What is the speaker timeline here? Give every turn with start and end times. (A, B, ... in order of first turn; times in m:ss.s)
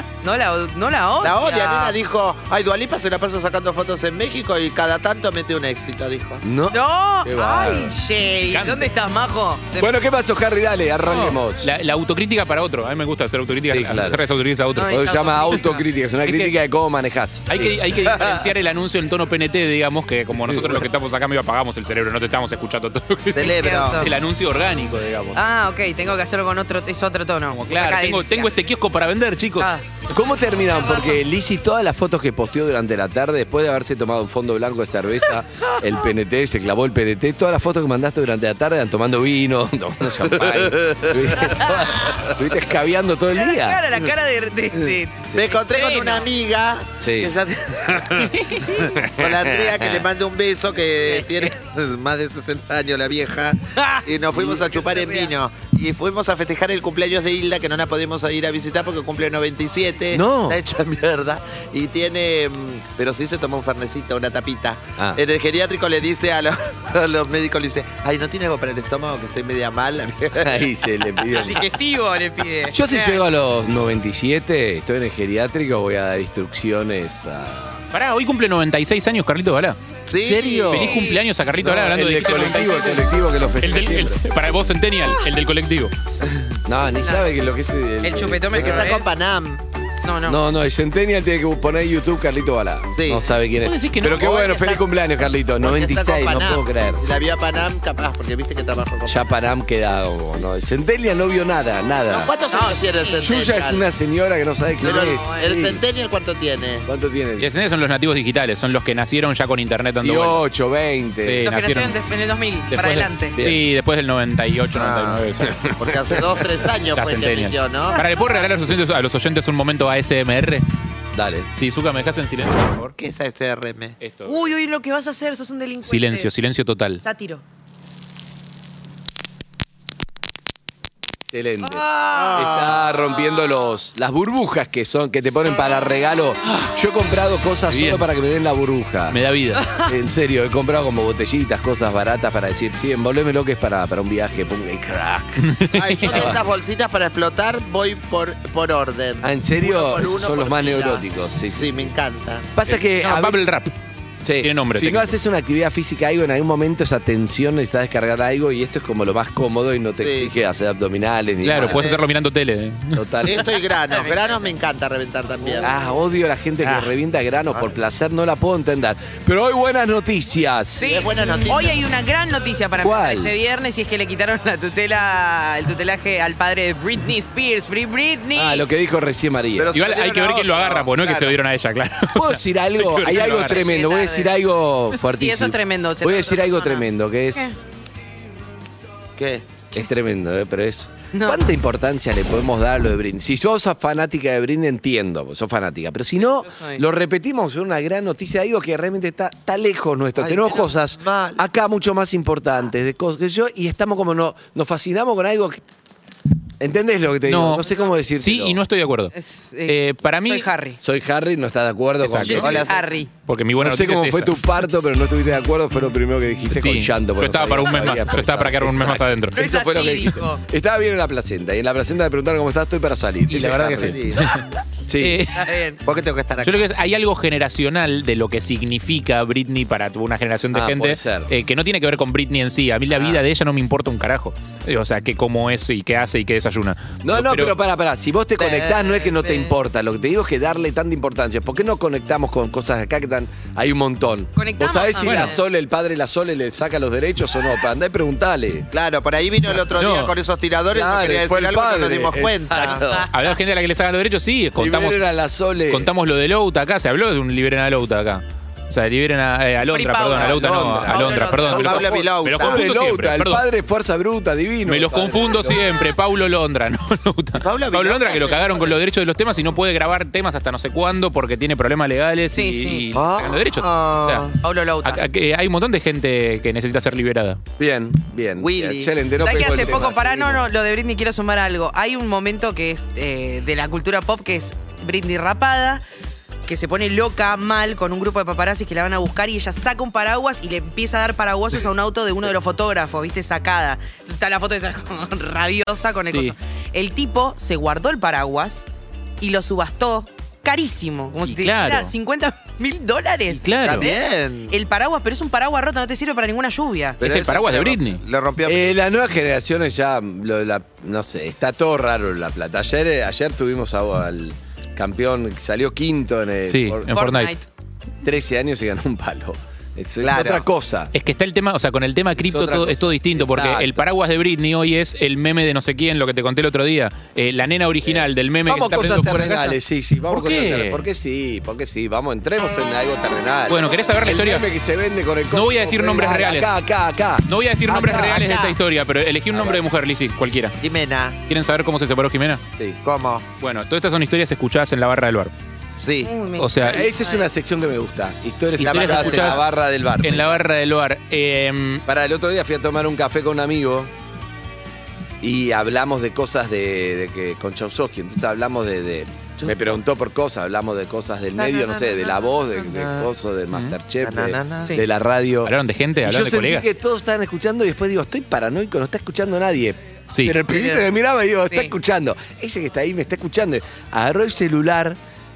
0:00.2-0:02.0 A
0:01.2-0:06.4 B
0:06.4-0:08.0 C
0:06.7-0:09.9 A
0:08.4-0:08.9 D
0:09.8-0:11.7 C
0:11.1-0:15.1 D
0:13.7-0:14.2 C
0:14.8-0:15.9 A
0:14.9-0:17.8 C
0:16.2-0:16.5 D
0:17.5-0:25.4 D
0:20.5-0:20.8 C
0:23.3-0:24.1 B
0:23.4-0:24.1 A
0:25.3-0:28.5 A
0:27.5-0:29.7 D
0:29.6-0:29.9 A
0:30.1-0:43.8 C
0:30.7-0:31.2 A
0:35.6-0:36.0 A
0:40.5-0:41.6 B
0:41.4-0:41.8 A
0:43.4-0:46.3 A
0:45.3-0:48.3 B
0:47.0-0:47.3 C
0:49.0-0:50.1 C
0:49.1-1:10.7 B
0:51.0-0:51.5 A
0:53.8-0:55.3 A
1:00.1-1:00.6 C
1:10.4-1:11.7 C
1:11.3-1:13.2 A
1:12.7-1:17.8 C
1:17.9-1:19.8 D
1:20.1-1:20.9 B
1:20.2-1:20.9 C
1:20.7-1:25.9 D
1:20.7-1:21.2 A
1:21.6-1:24.2 C
1:26.7-1:28.9 C
1:27.0-1:27.3 A
1:28.0-1:29.1 A
1:28.6-1:29.6 B
1:30.0-1:30.4 A
1:30.2-1:37.1 C
1:32.9-1:33.2 B
1:33.6-1:34.5 D
1:34.1-1:34.8 B
1:35.6-1:39.2 B
1:39.0-1:42.3 C
1:42.1-1:43.8 B
1:42.5-1:43.2 A
1:43.2-1:45.8 C
1:44.8-1:45.5 A
1:44.8-1:46.9 B
1:46.9-1:47.5 C
1:47.4-1:50.4 D
1:50.0-1:51.5 C
1:51.2-1:52.0 D
1:51.4-1:53.4 A
1:52.7-1:55.5 D
1:53.4-1:53.6 C
1:54.7-1:58.0 B
1:55.4-1:56.2 C
1:57.0-2:00.6 D
2:01.1-2:01.5 C
2:01.6-2:02.9 D
2:03.0-2:04.0 B
2:04.0-2:04.4 D
2:04.2-2:06.3 A
2:05.9-2:07.0 D
2:07.0-2:07.4 A
2:11.3-2:19.2 C
2:11.6-2:12.5 A
2:12.1-2:13.0 B
2:17.7-2:18.0 D
2:19.1-2:19.7 D
2:19.6-2:19.9 A
2:19.8-2:25.4 C
2:25.4-2:26.4 D
2:25.8-2:32.5 B
2:26.0-2:26.4 C
2:29.2-2:31.9 C
2:32.5-2:33.4 C
2:32.7-2:33.7 D
2:34.2-2:41.9 C
2:34.4-2:35.2 D
2:40.0-2:40.3 B
2:41.4-2:43.0 D
2:41.6-2:42.0 B
2:42.9-2:43.5 C
2:43.2-2:45.8 B
2:43.9-2:44.2 A
2:45.6-2:51.0 C
2:46.6-2:46.9 D
2:50.8-2:58.6 A
2:50.8-2:51.8 B
2:52.8-2:53.3 C
2:58.3-2:59.7 C
2:59.6-3:01.4 B
2:59.7-3:03.7 D
3:02.1-3:07.5 C
3:03.4-3:04.3 A
3:05.1-3:07.6 A
3:09.2-3:09.4 B
3:09.7-3:25.6 C
3:11.1-3:11.4 A
3:16.1-3:16.8 A
3:20.2-3:21.4 B
3:26.6-3:28.6 C
3:27.3-3:29.1 D
3:29.1-3:30.8 A
3:29.7-3:30.5 D
3:30.8-3:32.7 C
3:32.0-3:32.6 D
3:32.2-3:33.1 A
3:32.4-3:32.9 B
3:33.2-3:34.3 D
3:33.6-3:44.3 C
3:36.5-3:39.5 D
3:39.4-3:40.4 A
3:43.3-3:44.4 D
3:43.7-3:44.3 B
3:44.9-3:45.2 C
3:45.0-3:45.4 D
3:45.3-3:45.8 A
3:45.8-3:46.7 B
3:46.4-3:57.6 D
3:50.5-3:51.3 C
3:52.9-3:53.2 C
3:57.0-4:08.7 C
3:58.4-3:59.4 B
4:04.4-4:05.4 A
4:05.0-4:05.4 D
4:08.7-4:12.8 B
4:09.8-4:10.1 D
4:10.7-4:13.1 C
4:12.8-4:13.1 A
4:13.1-4:15.0 D
4:14.6-4:15.9 C
4:15.7-4:23.4 D
4:19.7-4:21.7 A
4:20.1-4:25.6 C
4:21.6-4:22.6 B
4:24.7-4:34.3 D
4:27.4-4:28.8 B
4:32.3-4:32.8 A
4:32.9-4:34.4 B
4:34.4-4:35.0 A
4:34.8-4:37.4 D
4:37.6-4:40.4 C
4:38.4-4:39.6 B
4:39.2-4:45.8 A
4:46.4-4:58.7 A
4:59.2-5:07.0 A
5:01.2-5:01.9 D
5:03.3-5:03.9 D
5:03.6-5:04.6 B
5:07.0-5:08.8 B
5:07.0-5:08.0 D
5:08.4-5:16.9 C
5:16.4-5:17.3 D
5:16.9-5:17.4 A
5:18.0-5:20.9 C
5:20.0-5:20.4 B
5:20.9-5:29.6 D
5:22.2-5:23.8 C
5:27.8-5:38.3 C
5:30.1-5:30.8 D
5:33.5-5:34.4 D
5:35.3-5:36.5 D
5:37.2-5:40.5 D
5:37.9-5:38.6 B
5:39.3-5:39.6 C
5:40.6-5:41.2 B
5:41.3-5:42.4 D
5:42.8-5:43.2 B
5:43.4-5:45.3 D
5:45.8-5:46.1 B
5:46.0-5:47.3 A
5:46.4-5:46.8 D
5:46.6-5:50.4 C
5:48.6-5:49.4 D
5:48.6-5:49.4 B
5:50.0-5:51.8 D
5:51.9-5:53.9 C
5:55.2-6:15.0 C
5:59.4-5:59.7 B
6:01.4-6:03.1 B
6:04.0-6:04.8 B
6:05.4-6:06.7 D
6:10.5-6:10.9 A